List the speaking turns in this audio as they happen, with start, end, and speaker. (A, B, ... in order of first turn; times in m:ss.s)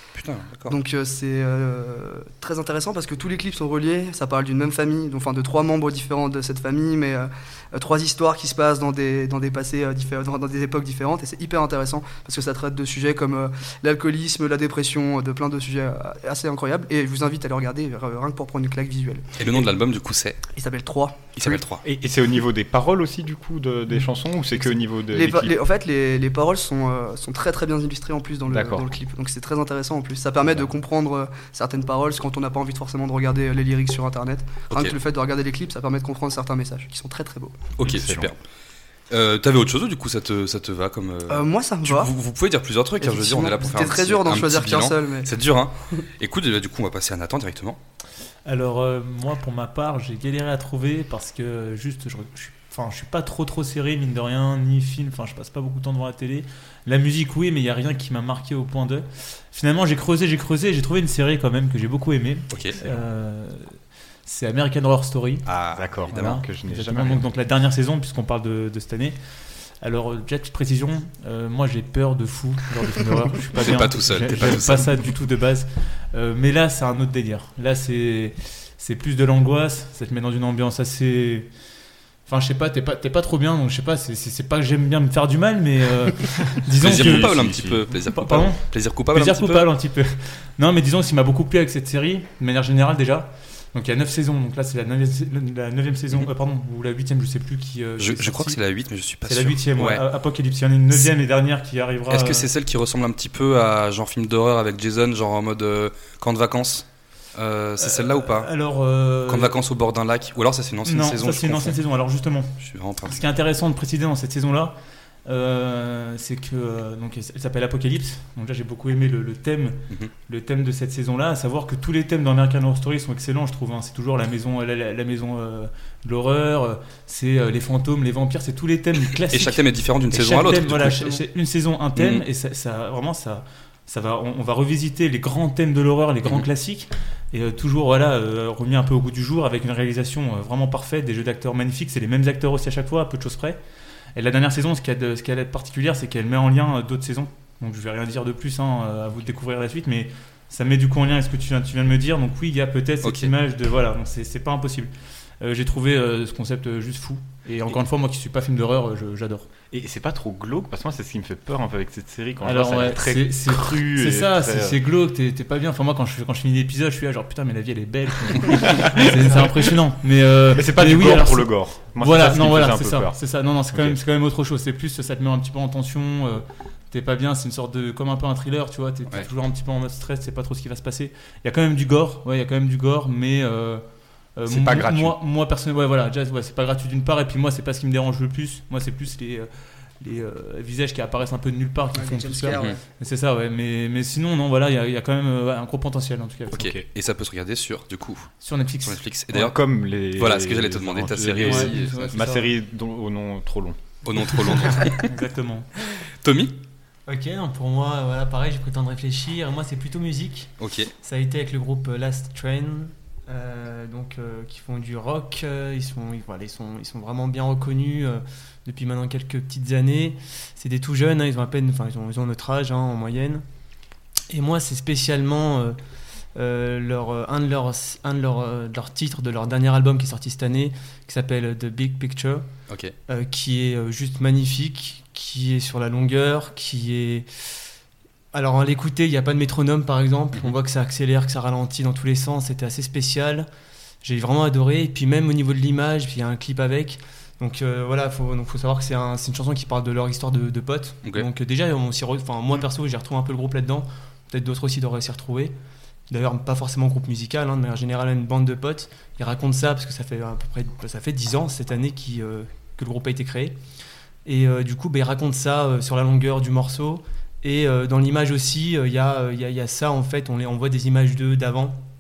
0:00.2-0:00.8 A
0:00.7-0:19.7 B
0:19.4-0:20.4 A
0:20.6-0:21.6 B
0:21.4-0:21.8 A
0:21.8-0:25.6 C
0:24.6-0:37.7 B
0:28.5-0:28.9 C
0:30.4-0:30.7 C
0:34.7-0:35.0 A
0:37.8-0:38.4 A
0:37.8-0:38.3 C
0:39.1-0:47.8 A
0:41.3-0:42.1 B
0:43.0-0:45.3 B
0:48.4-1:03.7 D
1:02.5-1:02.8 A
1:04.3-1:05.5 D
1:05.5-1:06.4 A
1:05.7-1:07.3 C
1:06.1-1:09.2 D
1:09.8-1:21.5 D
1:13.6-1:15.1 A
1:22.3-1:38.6 D
1:26.8-1:29.7 A
1:26.8-1:27.9 C
1:38.0-1:40.1 A
1:39.2-1:42.5 D
1:42.1-1:48.5 A
1:47.8-1:49.5 D
1:49.3-1:51.8 A
1:50.8-2:23.6 D
1:52.6-1:53.2 A
2:09.3-2:11.1 A
2:10.9-2:11.2 B
2:12.0-2:12.3 A
2:24.2-2:39.5 D
2:33.0-2:33.3 A
2:39.7-2:44.8 C
2:42.4-3:03.8 D
2:48.4-2:49.3 C
2:49.0-2:49.5 E
2:50.5-2:53.2 C
2:53.7-2:54.0 C
3:04.4-3:09.5 D
3:04.4-3:05.2 C
3:10.0-3:16.7 D
3:11.9-3:12.8 B
3:12.5-3:12.8 A
3:16.5-3:19.6 A
3:18.4-3:19.5 D
3:19.3-3:23.8 C
3:20.2-3:22.2 A
3:21.4-3:22.5 E
3:24.0-3:25.1 A
3:25.0-3:25.7 D
3:26.2-3:26.6 A
3:27.1-3:30.5 E
3:30.6-3:30.9 A
3:31.0-3:43.4 E
3:44.3-3:45.8 E
3:46.4-3:52.4 E
3:52.7-3:53.0 A
3:53.1-3:57.3 E
3:58.3-4:03.5 E
4:04.0-4:15.6 E
4:16.1-4:23.6 E
4:24.3-4:31.8 E